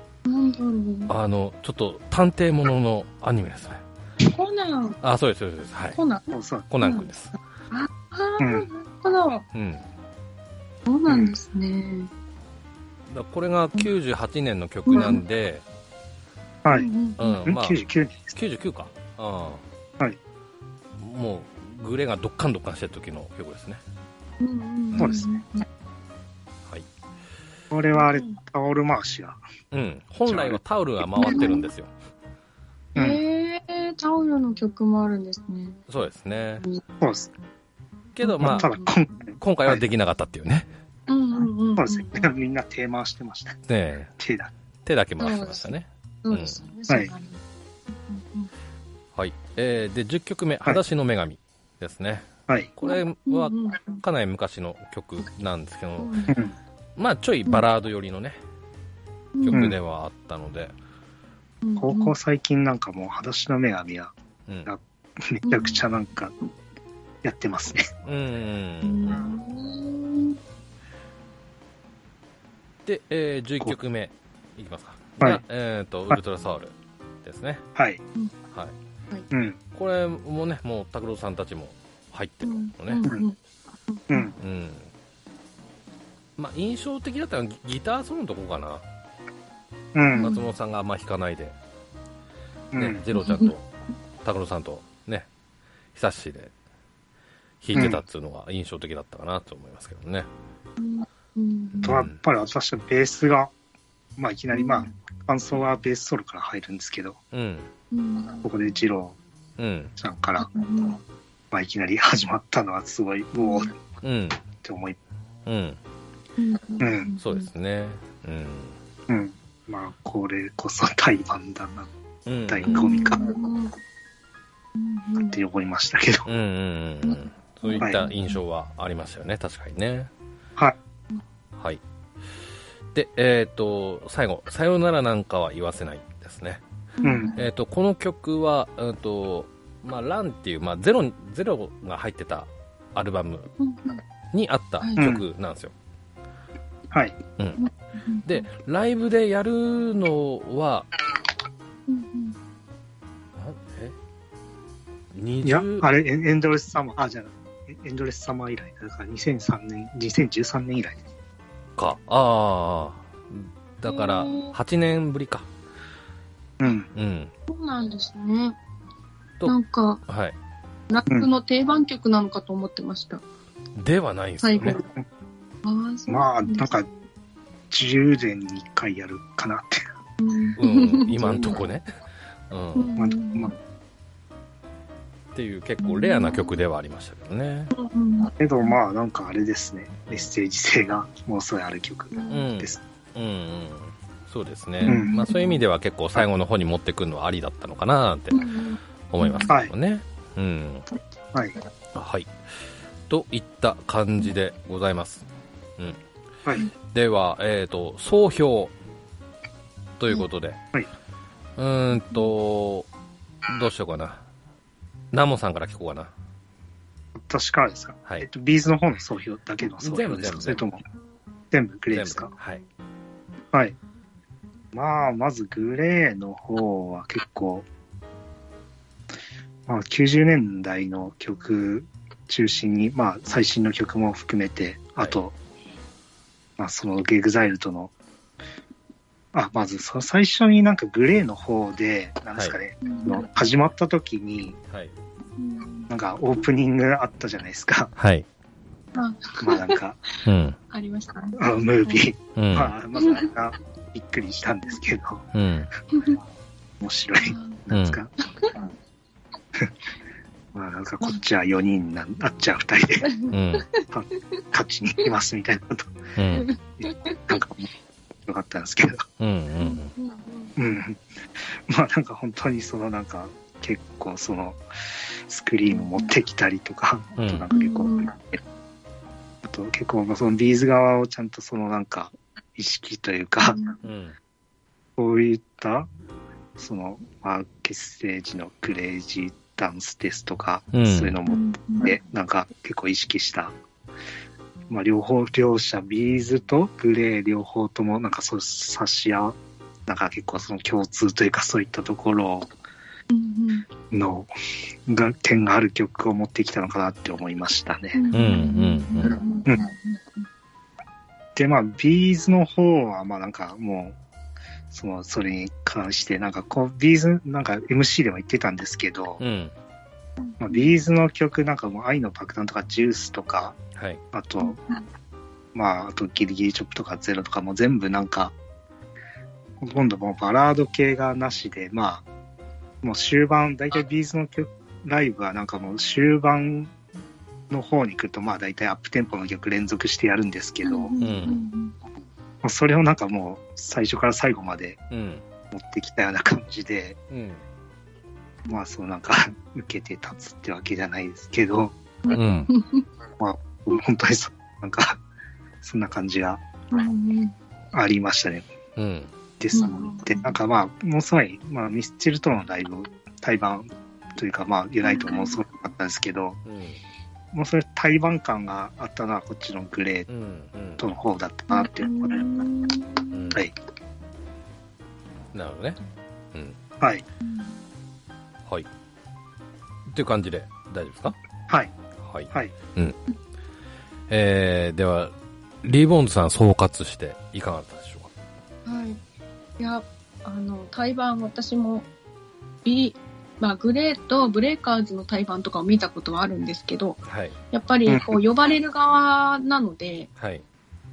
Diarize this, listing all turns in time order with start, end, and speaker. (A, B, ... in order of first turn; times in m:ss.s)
0:00.2-0:01.1 A
0:01.1-0:03.8 B
0:04.2-0:05.0 A
0:05.0-0:06.0 B
0:05.9-0:06.3 A
0:06.3-0:06.7 C
0:06.7-0:07.3 B
0:06.8-0:07.1 A
0:07.7-0:09.4 A
0:08.4-0:08.7 C
0:09.6-0:09.8 B
0:10.9-0:12.1 A
0:13.1-0:15.6 B
0:14.9-0:15.2 A
0:16.7-0:17.4 A
0:17.2-0:17.8 B
0:17.5-0:18.4 C
0:18.4-0:19.6 B
0:21.0-0:23.8 B
0:24.4-0:25.6 A
0:25.0-0:25.2 C
0:27.7-0:29.4 C
0:28.0-0:28.4 A
0:29.7-0:31.9 B
0:30.3-0:30.6 C
0:31.2-0:31.7 A
0:33.0-0:33.2 C
0:33.0-0:35.8 A
0:35.9-0:36.6 B
0:37.0-0:37.3 C
0:38.2-0:38.7 B
0:38.2-0:38.9 A
0:38.4-0:39.8 C
0:39.4-0:40.7 B
0:41.1-0:42.3 A
0:41.8-0:43.6 C
0:43.7-0:44.1 B
0:44.2-0:44.5 C
0:44.8-0:46.6 B
0:45.2-0:45.7 A
0:46.2-0:47.4 A
0:48.0-0:48.5 A
0:49.2-0:56.2 B
0:52.8-0:54.0 A
0:56.0-0:56.4 A
0:57.0-0:58.4 B
0:59.4-0:59.7 A
0:59.4-1:00.7 B
1:01.6-1:02.1 A
1:01.8-1:04.1 C
1:04.7-1:06.3 C
1:05.4-1:05.8 A
1:07.2-1:07.9 C
1:08.0-1:09.3 B
1:08.8-1:10.4 A
1:12.9-1:16.7 B
1:17.2-1:17.6 B
1:17.8-1:18.0 C
1:19.3-1:19.6 C
1:19.7-1:23.1 B
1:22.4-1:23.4 A
1:23.9-1:24.3 A
1:24.4-1:24.9 B
1:26.4-1:28.8 B
1:30.0-1:30.3 C
1:30.1-1:30.4 A
1:30.2-1:31.6 B
1:32.7-1:33.0 C
1:32.8-1:33.7 B
1:33.2-1:33.5 A
1:34.2-1:35.3 B
1:36.0-1:36.5 B
1:37.6-1:40.3 B
1:37.8-1:38.0 C
1:40.8-1:42.0 A
1:41.8-1:42.2 B
1:41.8-1:43.5 C
1:44.2-1:47.2 C
1:44.5-1:44.9 A
1:47.3-1:47.7 B
1:47.9-1:48.5 A
1:48.4-1:49.2 C
1:49.6-1:49.9 B
1:50.0-1:50.5 C
1:50.4-1:51.0 A
1:51.5-1:53.7 C
1:53.4-1:53.7 A
1:54.0-1:54.4 B
1:54.6-1:55.0 C
1:55.5-1:55.8 B
1:56.4-1:57.5 A
1:56.8-1:57.1 C
1:57.2-1:58.8 B
1:59.1-2:01.9 C
2:02.3-2:02.9 B
2:02.5-2:03.3 C
2:02.7-2:03.7 A
2:04.8-2:05.4 A
2:05.2-2:06.3 C
2:06.3-2:10.1 B
2:07.1-2:08.4 A
2:12.9-2:16.6 B
2:17.0-2:17.4 A
2:17.0-2:17.4 C
2:17.4-2:23.5 B
2:23.6-2:24.0 A
2:24.3-2:25.7 B
2:24.8-2:25.1 A
2:25.0-2:25.2 C
2:26.9-2:27.2 C
2:27.6-2:28.4 A
2:28.2-2:30.9 B
2:31.9-2:32.4 A
2:33.4-2:34.0 B
2:35.1-2:35.9 B
2:35.4-2:41.0 C
2:41.8-2:45.5 B
2:43.9-2:44.6 A
2:46.6-2:46.9 C
2:47.0-2:47.3 B
2:47.5-2:48.6 A
2:49.4-2:50.0 A
2:50.1-2:50.4 B
2:50.9-2:53.2 A
2:53.8-2:54.8 B
2:54.4-2:54.9 A
2:55.6-2:56.7 A
2:56.1-2:56.9 C
2:57.7-2:59.8 C
3:00.2-3:01.6 A
3:00.6-3:01.9 B
3:02.5-3:02.9 B
3:02.8-3:03.5 A
3:03.0-3:03.5 C
3:05.4-3:07.7 B
3:05.8-3:06.6 A
3:07.7-3:08.7 A
3:08.4-3:12.8 C
3:12.1-3:12.5 A
3:12.3-3:18.5 B
3:14.8-3:15.6 A
3:14.8-3:15.3 C
3:18.3-3:19.5 A
3:19.1-3:20.9 B
3:19.5-3:19.7 C
3:21.9-3:22.3 B
3:23.1-3:25.2 B
3:26.9-3:28.7 B
3:30.0-3:30.6 B
3:31.6-3:32.9 B
3:33.5-3:34.2 B
3:35.1-3:36.1 B
3:37.2-3:40.8 C
3:39.8-3:40.6 B
3:41.5-3:42.3 C
3:41.9-3:42.6 B
3:44.7-3:47.7 C
3:49.7-3:55.3 C
3:56.6-3:57.9 C
3:59.3-4:04.6 C
4:02.8-4:03.3 A
4:05.4-4:05.9 A
4:05.9-4:07.9 C
4:08.0-4:08.3 B
4:09.0-4:09.8 A
4:09.4-4:10.0 C
4:10.2-4:10.6 B
4:10.7-4:12.0 A
4:11.4-4:15.3 C
4:12.4-4:12.7 B
4:13.0-4:13.3 A
4:15.3-4:15.7 B
4:16.8-4:18.1 C
4:17.2-4:17.6 A
4:17.7-4:18.0 B
4:18.4-4:18.6 A
4:20.5-4:23.1 C
4:23.0-4:23.8 A
4:23.3-4:23.7 B
4:23.9-4:26.0 C
4:26.2-4:26.5 B
4:26.3-4:27.4 A
4:26.8-4:27.7 C
4:28.3-4:29.0 C
4:29.2-4:29.9 B
4:29.6-4:30.5 A
4:30.6-4:38.4 C
4:35.8-4:36.1 A
4:37.2-4:37.5 B
4:37.5-4:38.1 A
4:39.4-4:43.6 C
4:43.5-4:43.8 A
4:43.8-4:44.2 B
4:45.0-4:45.9 C
4:46.6-4:53.6 C
4:50.7-4:51.2 B
4:51.3-4:51.9 A
4:54.7-5:02.5 C
5:03.1-5:03.7 A
5:03.9-5:04.3 C
5:04.9-5:08.0 C
5:07.9-5:10.0 A
5:08.1-5:09.2 B
5:11.4-5:14.0 C
5:14.7-5:19.2 C
5:19.2-5:19.5 B
5:20.4-5:23.6 C
5:23.8-5:24.0 B
5:24.1-5:24.6 C
5:25.5-5:28.4 C
5:29.6-5:32.0 C
5:32.8-5:36.7 C
5:37.5-5:41.0 C
5:40.6-5:41.7 A
5:41.0-5:41.4 B
5:42.4-5:44.8 C
5:44.9-5:45.2 B
5:45.5-5:47.0 C
5:47.1-5:47.4 B
5:48.5-5:51.8 C
5:52.1-5:52.8 A
5:52.1-5:52.5 B
5:53.2-5:55.0 C
5:55.6-5:56.4 C
5:56.7-5:57.4 A
5:57.7-5:58.5 C
5:58.8-5:59.1 B
5:59.4-6:06.4 C
5:59.5-6:00.4 A
6:04.8-6:05.4 A
6:06.5-6:06.8 B
6:07.3-6:10.1 C
6:10.1-6:10.8 B
6:10.8-6:12.3 C
6:11.5-6:13.4 A
6:13.1-6:13.4 B
6:15.3-6:15.8 B
6:17.2-6:17.6 A
6:19.9-6:21.2 B
6:22.0-6:23.0 B
6:24.1-6:28.1 B
6:28.7-6:29.0 A
6:29.6-6:31.9 A
6:32.6-6:37.0 A
6:37.1-6:37.4 B
6:37.5-6:40.1 A